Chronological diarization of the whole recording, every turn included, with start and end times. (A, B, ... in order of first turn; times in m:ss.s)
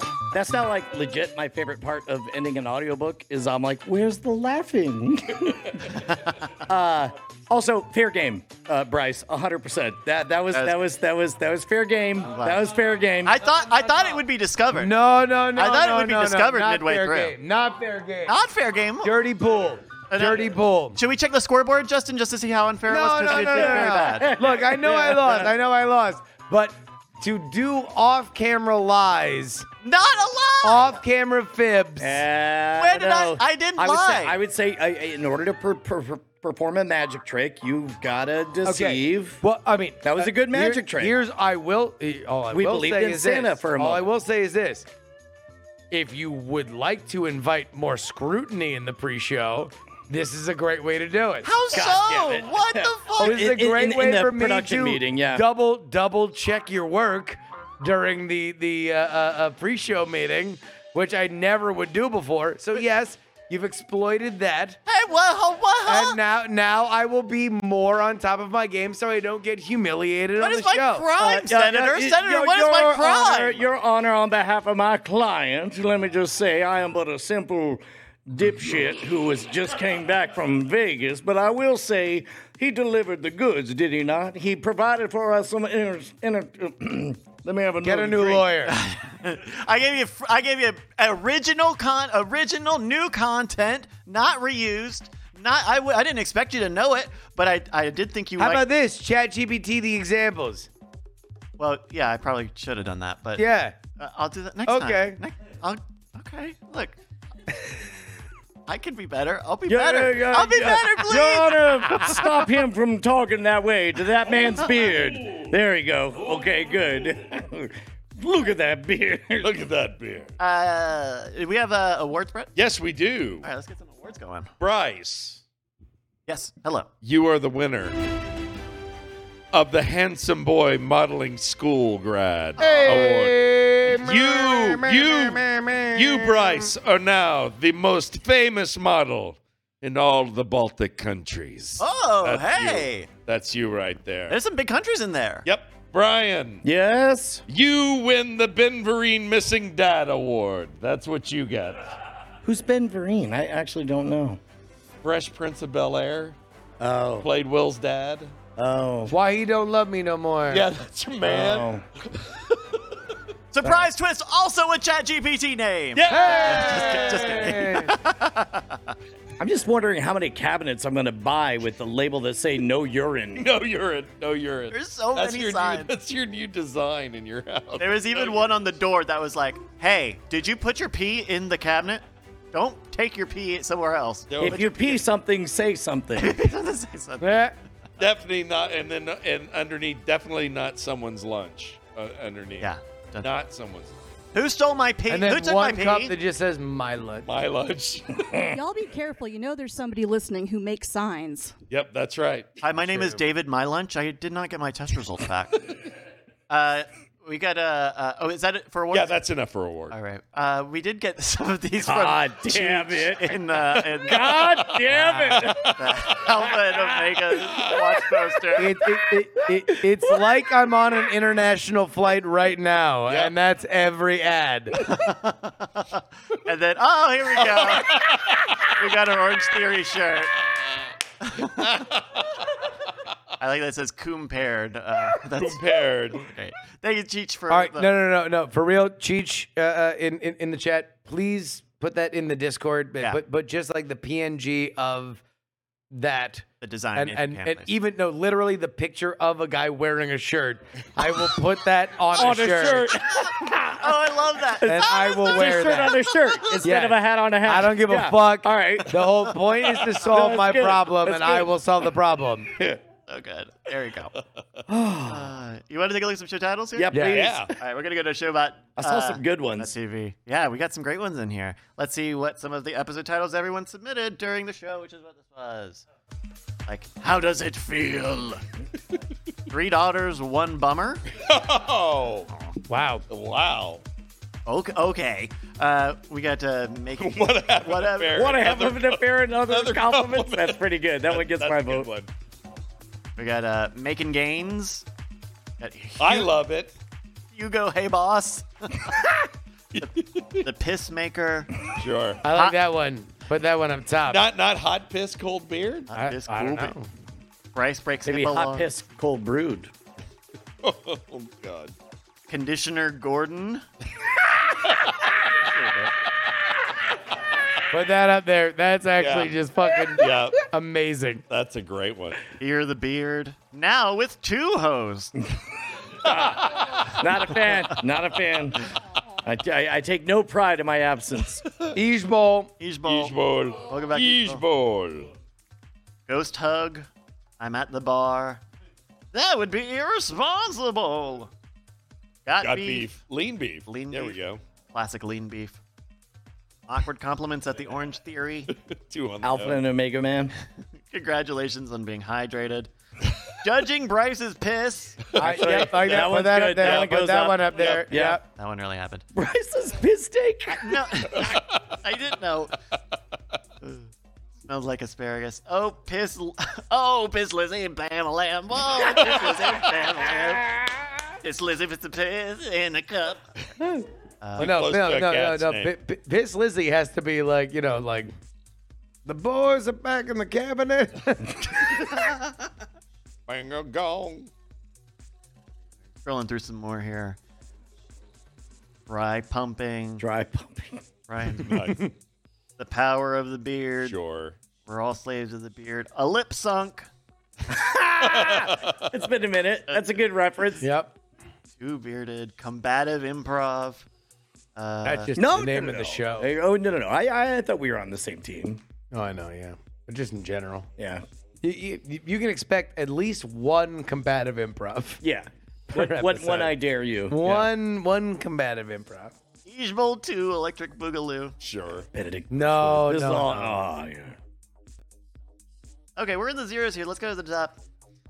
0:00.3-0:06.0 A
0:06.1-0:06.3 B
0:06.7-0:13.4 A
0:10.5-0:10.8 B
0:12.3-0:12.6 B
0:13.2-0:14.9 B
0:14.7-0:18.4 C
0:15.5-0:17.4 B
0:18.3-0:19.1 B
0:19.0-0:21.0 C
0:20.1-0:24.3 B
0:22.9-0:29.6 C
0:23.4-0:25.5 A
0:29.8-0:31.0 B
0:30.6-0:32.2 C
0:32.0-0:39.4 A
0:32.8-0:34.4 B
0:38.6-0:44.9 C
0:40.0-0:41.1 A
0:42.5-0:44.0 A
0:45.9-0:51.5 C
0:51.4-0:53.5 B
0:51.7-0:55.4 A
0:53.2-1:04.8 C
1:04.9-1:06.2 B
1:05.8-1:11.1 C
1:10.4-1:13.6 B
1:11.2-1:28.5 A
1:27.8-1:28.7 C
1:28.6-1:38.6 B
1:38.4-1:40.7 C
1:41.6-1:47.0 B
1:43.4-1:43.8 C
1:44.6-1:45.2 C
1:48.7-1:51.8 B
1:49.7-1:59.5 A
1:59.4-2:00.3 D
2:00.4-2:02.5 B
2:02.6-2:03.4 D
2:03.4-2:04.5 B
2:04.6-2:05.4 D
2:06.3-2:06.9 B
2:07.0-2:08.0 D
2:09.5-2:24.4 D
2:12.6-2:13.1 B
2:12.6-2:16.7 C
2:21.8-2:23.1 B
2:24.3-2:25.4 B
2:25.4-2:26.6 D
2:26.6-2:27.4 A
2:27.5-2:31.9 D
2:32.4-2:34.4 A
2:35.0-2:36.4 D
2:36.8-2:37.3 A
2:37.2-2:38.3 D
2:38.6-2:39.1 A
2:39.1-2:40.7 C
2:40.5-2:43.1 D
2:41.2-2:41.8 A
2:43.5-2:48.9 B
2:45.9-2:47.5 D
2:46.1-2:47.9 C
2:49.4-2:53.5 A
2:53.4-2:58.5 D
2:54.7-2:55.9 B
2:57.8-3:05.0 B
3:04.3-3:04.8 D
3:04.4-3:06.4 A
3:06.1-3:07.4 B
3:07.2-3:07.5 C
3:08.0-3:13.9 D
3:12.6-3:13.3 B
3:14.3-3:16.2 B
3:15.1-3:17.3 C
3:17.2-3:18.5 D
3:18.5-3:21.6 E
3:21.7-3:22.6 D
3:22.6-3:25.7 B
3:26.5-3:29.2 B
3:28.9-3:30.0 D
3:29.9-3:38.8 B
3:31.8-3:33.4 A
3:34.0-3:35.7 A
3:34.7-3:36.2 D
3:37.4-3:37.9 D
3:38.6-3:44.9 C
3:43.1-3:43.3 D
3:44.8-3:50.3 B
3:51.2-3:51.7 B
3:51.6-3:52.2 D
3:53.4-3:57.9 B
3:55.3-3:56.2 D
3:57.5-4:05.2 C
4:05.9-4:12.9 C
4:06.6-4:07.7 B
4:12.1-4:14.0 A
4:13.8-4:16.1 B
4:14.5-4:19.0 A
4:14.6-4:16.0 C
4:16.6-4:22.5 C
4:20.1-4:21.5 A
4:23.1-4:24.1 B
4:24.7-4:25.3 A
4:25.1-4:27.0 B
4:26.7-4:27.6 A
4:26.9-4:27.4 C
4:27.1-4:27.5 D
4:27.6-4:35.8 B
4:28.8-4:29.7 A
4:36.7-4:38.4 B
4:39.5-4:41.0 B
4:41.2-4:42.3 D
4:42.7-4:43.0 C
4:43.1-4:43.8 D
4:44.4-4:48.5 B
4:47.0-4:52.1 D
4:48.1-4:51.9 A
4:53.2-4:54.8 B
4:55.6-4:56.3 B
4:56.0-4:56.7 D
4:57.3-4:59.2 B
4:59.8-5:00.4 D
5:00.4-5:01.5 B
5:01.8-5:02.2 D
5:02.2-5:04.2 C
5:04.1-5:05.9 D
5:05.9-5:06.8 B
5:05.9-5:06.9 C
5:07.5-5:08.7 B
5:08.0-5:09.7 A
5:10.6-5:11.7 D
5:12.3-5:13.6 B
5:17.7-5:21.2 C
5:19.0-5:19.3 D
5:20.0-5:20.4 D
5:21.3-5:22.2 D
5:22.4-5:25.1 B
5:26.0-5:28.7 A
5:26.6-5:26.9 D
5:29.2-5:31.4 A
5:31.7-5:32.5 C
5:32.6-5:33.2 B
5:32.8-5:35.1 D
5:33.7-5:34.4 B
5:36.1-5:36.9 B
5:37.4-5:38.4 B
5:39.1-5:41.3 B
5:42.2-5:43.0 B
5:42.4-5:44.4 D
5:43.6-5:44.2 B
5:44.7-5:45.6 B
5:46.7-5:48.5 B
5:48.5-5:49.6 D
5:49.2-5:50.3 A
5:50.9-5:52.7 B
5:53.4-5:56.9 B
5:55.2-5:58.2 C
5:55.2-5:58.2 A
5:57.6-5:59.0 B
5:59.1-6:01.3 A
6:00.6-6:02.5 B
6:04.5-6:10.6 B
6:11.2-6:13.2 B
6:14.2-6:14.5 B
6:14.4-6:15.7 D
6:14.4-6:18.1 C
6:19.0-6:22.0 C
6:23.3-6:24.3 D
6:26.0-6:27.2 B
6:28.9-6:30.0 B
6:30.0-6:30.8 A
6:31.1-6:31.8 B
6:32.6-6:34.0 B
6:33.8-6:34.4 D
6:34.6-6:36.9 B
6:37.5-6:40.7 A
6:38.1-6:38.8 D
6:39.7-6:40.1 B
6:40.6-6:40.9 C
6:41.6-6:43.8 B
6:44.6-6:45.1 B
6:44.8-6:46.3 C
6:45.1-6:48.6 A
6:48.9-6:50.7 C
6:50.8-6:51.0 A
6:51.4-6:55.0 C
6:55.0-6:57.5 A
6:55.7-6:56.6 C
6:57.1-6:59.1 C
6:59.4-7:01.3 B
7:01.4-7:01.9 D
7:01.9-7:04.2 A
7:02.3-7:03.7 C
7:06.0-7:07.6 B